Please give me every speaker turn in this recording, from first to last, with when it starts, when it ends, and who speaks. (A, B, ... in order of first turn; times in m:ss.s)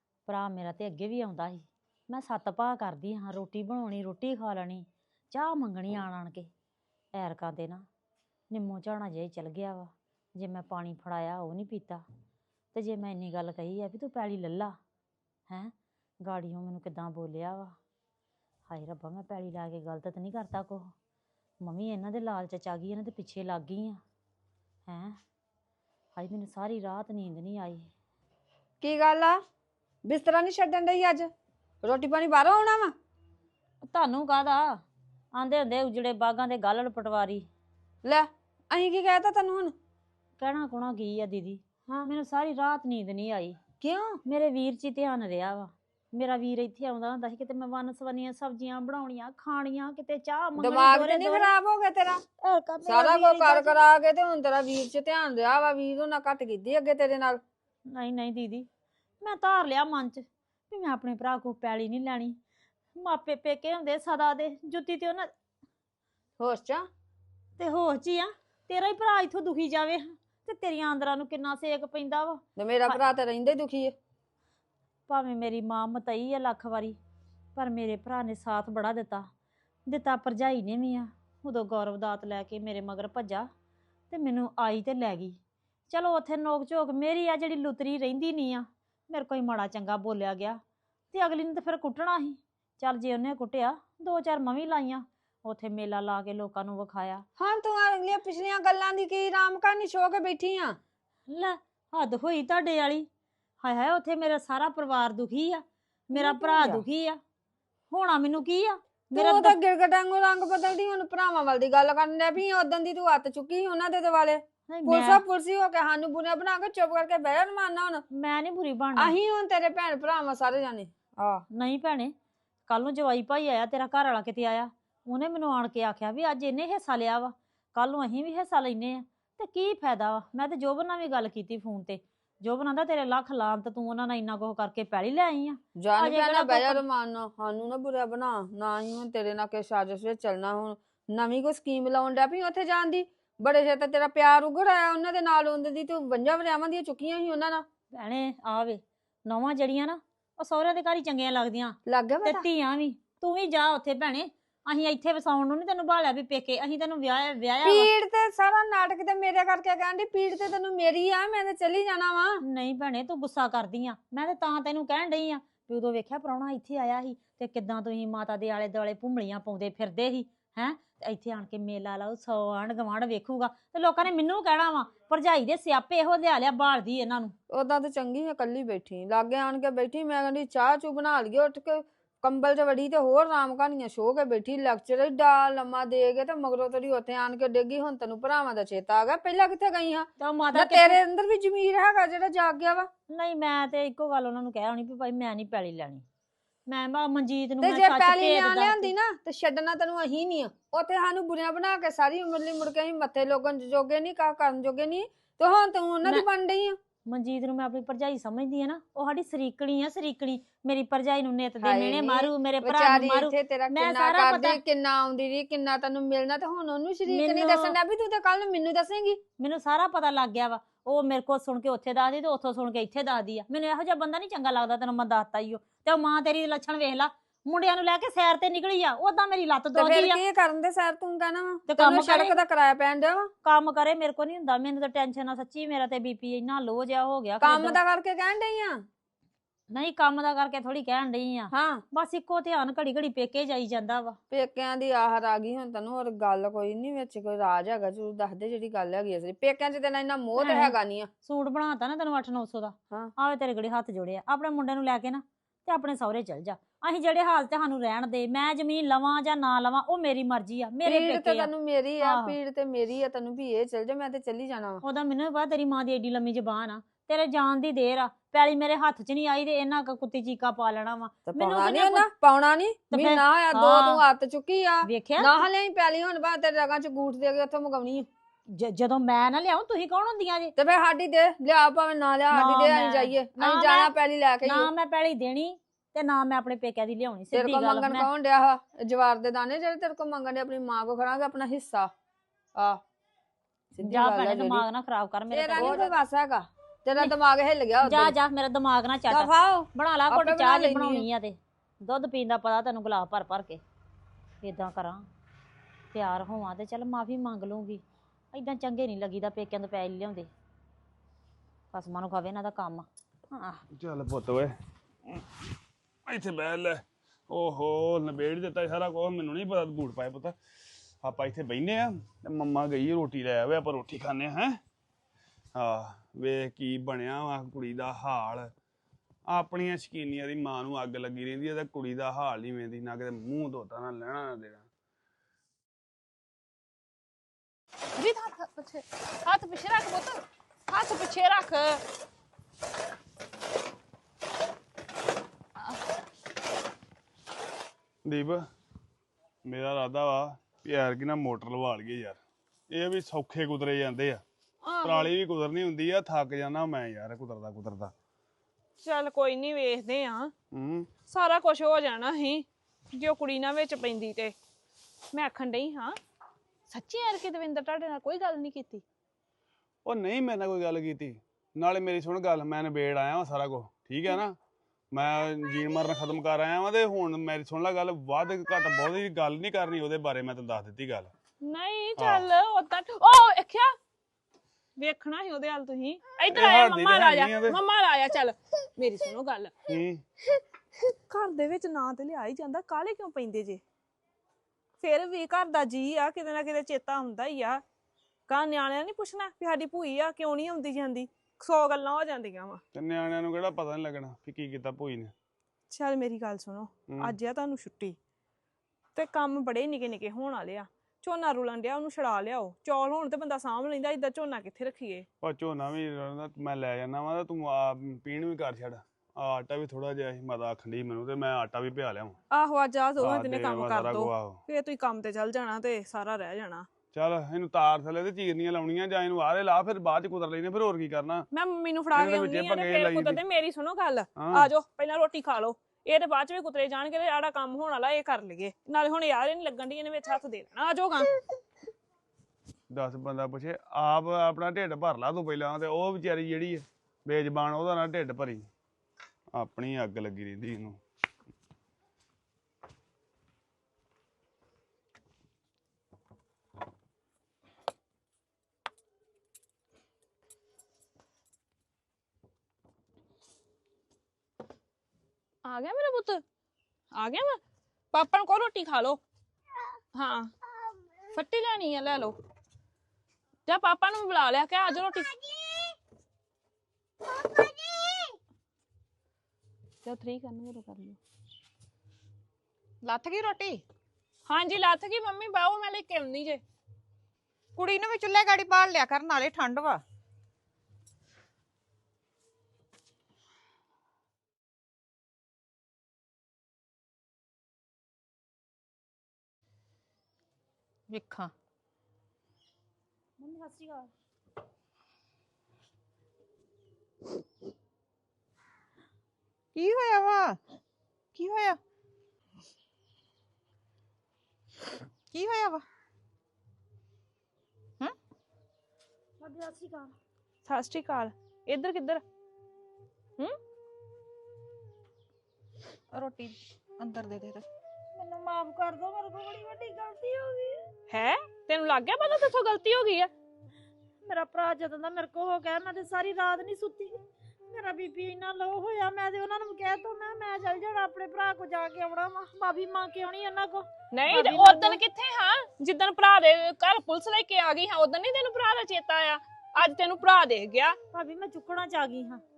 0:00.3-0:06.5 A
0:07.1-0:07.8 A
0:08.5-0:12.0 A
0:12.7-0:14.8 A
0:15.5-0:17.7 A
0:18.7-0:20.9 A
0:21.6-0:24.0 A
0:24.9-0:25.2 A
0:26.2-0:27.9 A
0:28.8-0:29.4 B
0:30.1-0:31.3 B
0:31.8-0:32.9 B
0:33.8-0:34.8 A
0:35.3-0:37.4 A
0:38.0-0:39.7 B
0:40.4-0:43.6 A
0:43.8-0:44.2 B
0:44.2-0:51.5 A
0:50.6-0:52.2 B
0:52.4-0:53.9 A
0:52.8-0:57.4 B
0:57.9-0:58.7 A
0:59.2-1:02.4 A
1:03.0-1:05.3 A
1:06.4-1:06.8 B
1:07.6-1:13.0 A
1:12.6-1:13.9 B
1:15.1-1:17.0 A
1:17.6-1:19.3 A
1:19.9-1:23.5 A
1:24.1-1:25.4 A
1:25.9-1:30.6 A
1:31.1-1:37.2 A
1:37.4-1:40.8 B
1:41.3-1:43.0 A
1:43.6-1:47.2 A
1:46.1-1:46.8 B
1:47.9-1:49.6 A
1:49.1-1:58.0 B
1:54.7-1:55.2 A
1:58.1-1:59.2 A
1:59.0-2:01.4 B
2:01.5-2:02.1 A
2:02.7-2:16.8 A
2:15.8-2:27.6 B
2:27.9-2:37.9 A
2:31.9-2:32.4 B
2:37.6-2:42.4 B
2:42.5-2:57.3 A
2:57.5-3:12.9 B
3:10.2-3:11.0 A
3:13.1-3:16.0 A
3:16.7-3:18.9 A
3:17.6-3:26.8 B
3:27.1-3:34.6 A
3:31.6-3:39.2 B
3:37.1-3:37.8 A
3:39.4-3:50.2 A
3:49.7-3:53.3 B
3:51.7-3:52.4 A
3:53.4-3:57.8 A
3:57.4-3:58.8 B
3:59.7-4:04.2 A
4:01.5-4:01.8 B
4:04.3-4:11.1 B
4:10.4-4:21.5 A
4:20.8-4:24.8 B
4:22.0-4:22.3 A
4:24.8-4:32.0 A
4:31.3-4:38.1 B
4:32.9-4:34.0 A
4:34.8-4:35.4 A
4:38.5-4:40.5 A
4:40.6-4:44.7 B
4:42.3-4:43.9 A
4:44.4-4:48.1 A
4:47.3-4:51.9 B
4:53.7-4:54.6 B
4:53.8-4:55.9 A
4:55.3-4:58.1 B
4:57.8-5:03.6 A
4:59.1-5:01.1 B
5:04.4-5:05.0 A
5:05.9-5:10.3 A
5:11.7-5:13.6 A
5:13.7-5:14.5 C
5:16.1-5:20.3 C
5:21.0-5:24.6 C
5:25.6-5:28.5 C
5:29.3-5:34.6 C
5:38.0-5:41.8 D
5:48.0-5:48.4 C
5:49.4-5:54.2 C
5:54.6-5:55.1 D
5:54.8-5:57.9 C
5:58.8-6:00.3 D
6:00.5-6:00.9 C
6:01.1-6:04.3 D
6:05.1-6:06.0 D
6:06.7-6:08.8 D
6:09.8-6:14.4 C
6:14.9-6:21.1 C
6:21.4-6:23.7 D
6:22.0-6:22.3 C
6:24.8-6:29.5 D
6:26.3-6:27.6 C
6:29.7-6:30.0 C
6:30.3-6:33.6 D
6:34.8-6:37.6 D
6:38.3-6:42.6 D
6:42.7-6:45.1 C
6:45.7-6:48.0 D
6:46.9-6:47.2 C
6:48.9-6:55.1 D
6:55.2-7:02.2 C
7:02.3-7:06.7 D
7:03.0-7:04.4 C
7:06.9-7:11.2 C
7:11.3-7:21.1 D
7:11.9-7:13.2 C
7:14.2-7:14.5 C
7:22.7-7:28.5 C
7:29.3-7:30.8 C
7:45.4-7:46.2 D
7:46.9-7:47.4 D
7:47.9-7:49.0 D
7:49.9-7:50.3 D
7:51.1-7:52.2 D
7:53.4-7:55.2 D
7:59.8-8:01.0 D
8:02.8-8:03.6 E
8:04.2-8:06.4 D
8:07.6-8:09.8 E
8:20.9-8:21.3 E
8:23.2-8:23.9 A
8:29.5-8:30.4 E
8:31.1-8:31.6 E
8:35.1-8:35.6 E
8:39.2-8:39.9 A
8:40.4-8:42.0 D
8:45.9-8:47.4 E
8:47.9-8:50.7 A
8:50.9-8:53.1 D
8:54.0-9:04.8 A
9:03.9-9:10.8 D
9:10.9-9:12.2 A